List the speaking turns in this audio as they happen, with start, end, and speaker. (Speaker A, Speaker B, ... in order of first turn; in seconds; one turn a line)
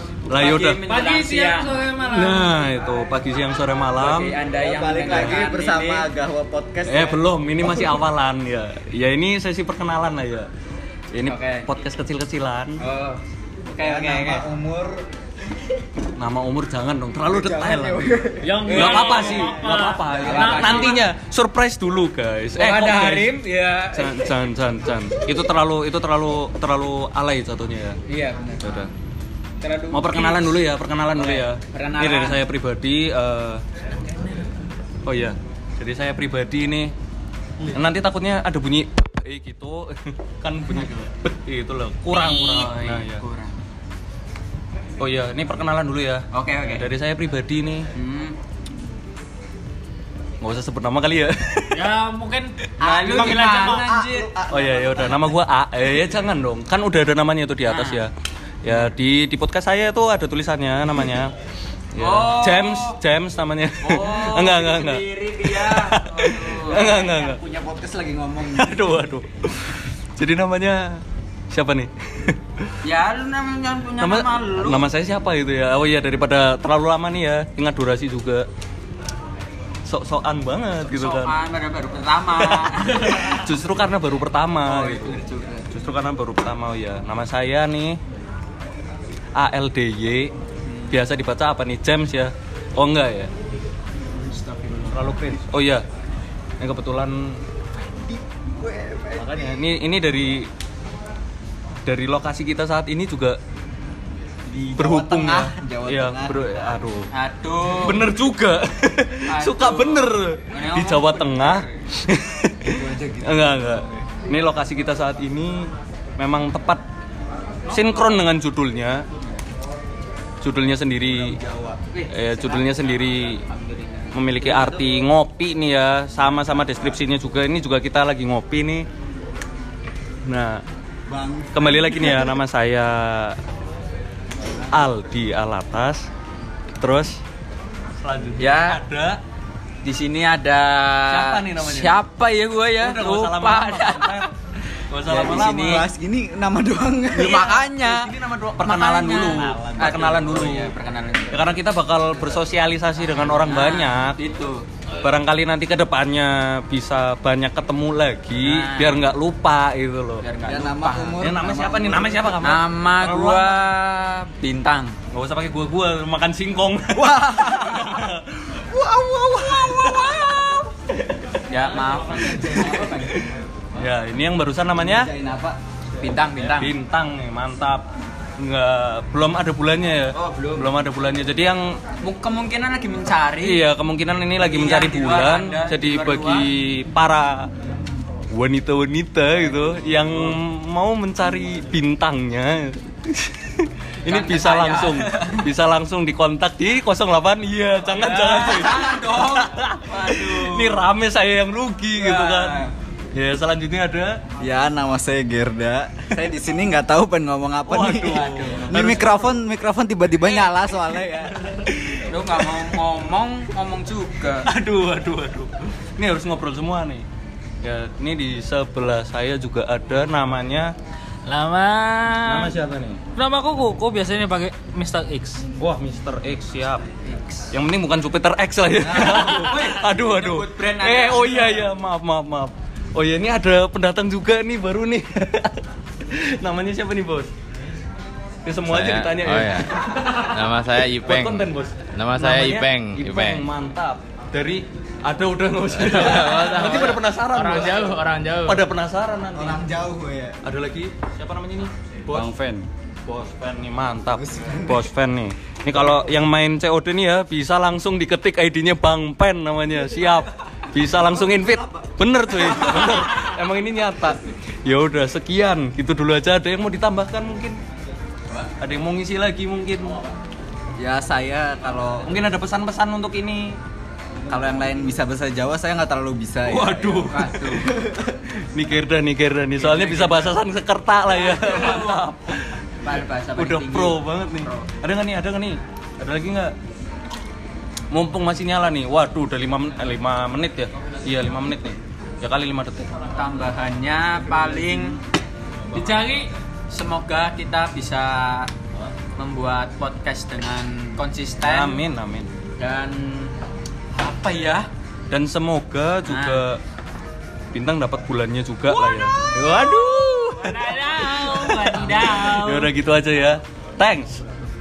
Speaker A: 0.3-0.8
Speaker B: 0.3-1.8
Speaker C: 0.9-2.6
Speaker A: 2.1-4.4
Speaker B: 4.0-6.1
Speaker D: 4.5-7.9
Speaker A: 5.1-5.4
Speaker A: 6.9-10.5
Speaker A: 11.1-12.8
Speaker B: 11.2-11.7
Speaker B: 12.8-13.2
Speaker B: 13.7-14.5
Speaker D: 13.8-15.0
Speaker A: 16.2-18.1
Speaker D: 17.2-19.5
Speaker C: 18.4-20.9
Speaker A: 18.6-23.3
Speaker B: 18.7-19.4
Speaker B: 20.1-21.0
Speaker B: 22.5-24.4
Speaker A: 23.9-28.0
Speaker B: 28.1-28.8
Speaker A: 28.6-28.9
Speaker B: 29.6-32.4
Speaker A: 29.9-33.6
Speaker A: 35.0-36.9
Speaker A: 37.7-43.2
Speaker B: 42.1-43.6
Speaker A: 45.0-47.9
Speaker B: 46.3-46.9
Speaker B: 47.9-48.4
Speaker A: 50.4-51.9
Speaker C: 51.7-54.3
Speaker B: 52.8-53.8
Speaker A: 52.8-58.1
Speaker D: 52.8-55.3
Speaker B: 57.7-58.1
Speaker A: 58.6-61.3
Speaker A: 61.9-67.4
Speaker B: 62.0-63.0
Speaker B: 63.8-67.2
Speaker D: 66.8-69.0
Speaker A: 68.5-72.7
Speaker B: 72.8-74.9
Speaker A: 74.0-78.5
Speaker A: 79.8-81.3
Speaker B: 80.9-83.5
Speaker A: 82.4-85.1
Speaker B: 84.6-85.7
Speaker A: 85.7-88.0
Speaker A: 89.4-90.3
Speaker B: 90.7-91.0
Speaker A: 90.9-93.3
Speaker B: 94.4-94.9
Speaker A: 94.9-95.8
Speaker A: 96.6-97.4
Speaker D: 98.6-99.5
Speaker A: 99.2-100.5
Speaker A: 101.8-103.4
Speaker D: 104.5-106.4
Speaker A: 104.8-107.1
Speaker B: 107.1-108.1
Speaker A: 107.8-116.8
Speaker B: 109.3-111.7
Speaker D: 112.7-113.8
Speaker A: 117.7-119.0
Speaker A: 120.4-121.4
Speaker D: 121.2-121.8
Speaker B: 121.9-124.8
Speaker A: 122.1-123.4
Speaker A: 124.1-128.8
Speaker A: 130.2-130.6
Speaker D: 131.1-132.3
Speaker A: 131.5-133.4
Speaker A: 134.7-136.1
Speaker A: 136.8-137.2
Speaker A: 138.0-139.2
Speaker B: 138.4-138.8
Speaker B: 139.8-144.3
Speaker A: 141.1-142.0
Speaker A: 142.8-144.3
Speaker A: 144.9-145.9
Speaker B: 145.1-145.8
Speaker D: 145.1-148.0
Speaker B: 147.1-148.1
Speaker A: 147.8-150.7
Speaker B: 148.6-151.6
Speaker A: 151.3-154.2
Speaker B: 153.2-154.6
Speaker A: 155.0-163.6
Speaker B: 158.4-159.1
Speaker B: 160.2-161.2
Speaker D: 160.4-162.2
Speaker B: 162.4-164.9
Speaker A: 165.1-168.8
Speaker D: 166.9-168.1
Speaker D: 168.7-170.6
Speaker A: 169.4-170.4
Speaker B: 171.5-173.0
Speaker D: 172.4-173.2
Speaker A: 173.7-175.1
Speaker D: 174.8-175.6
Speaker B: 176.0-176.7
Speaker A: 176.4-177.8
Speaker A: 178.4-181.8
Speaker D: 180.1-180.7
Speaker B: 182.0-183.6
Speaker A: 183.4-187.5
Speaker B: 184.4-186.5
Speaker A: 188.3-204.2
Speaker B: 194.1-195.5
Speaker B: 197.9-200.8
Speaker B: 201.9-202.7
Speaker D: 204.4-211.3
Speaker A: 207.7-209.3
Speaker B: 208.1-208.7
Speaker A: 211.5-211.8
Speaker B: 212.0-214.5
Speaker A: 214.4-217.1
Speaker A: 217.6-220.7
Speaker C: 221.2-222.5
Speaker A: 222.2-223.0
Speaker C: 223.2-225.4
Speaker A: 225.6-226.8
Speaker B: 227.0-227.5
Speaker A: 227.5-237.3
Speaker B: 228.8-231.7
Speaker A: 238.4-240.4
Speaker E: 238.7-243.5
Speaker A: 240.9-249.6
Speaker E: 245.7-247.0
Speaker C: 245.9-248.6
Speaker D: 249.3-250.4
Speaker A: 250.4-252.5
Speaker A: 253.1-267.6
Speaker D: 254.1-254.8
Speaker D: 261.2-261.6
Speaker A: 268.6-270.0
Speaker D: 270.8-272.1
Speaker A: 272.1-273.6
Speaker D: 274.3-277.1
Speaker A: 276.4-282.6
Speaker B: 276.8-277.7
Speaker B: 279.6-280.4
Speaker B: 281.2-282.0
Speaker B: 282.8-284.6
Speaker A: 283.4-286.5
Speaker A: 287.9-292.9
Speaker B: 293.1-295.0
Speaker C: 295.8-296.2
Speaker B: 296.7-298.5
Speaker B: 299.2-301.8
Speaker A: 301.4-302.3
Speaker B: 302.6-303.3
Speaker B: 303.9-304.7
Speaker A: 305.1-306.6
Speaker B: 306.1-306.4
Speaker A: 307.5-314.2
Speaker B: 308.9-309.6
Speaker C: 310.4-312.7
Speaker B: 311.2-312.1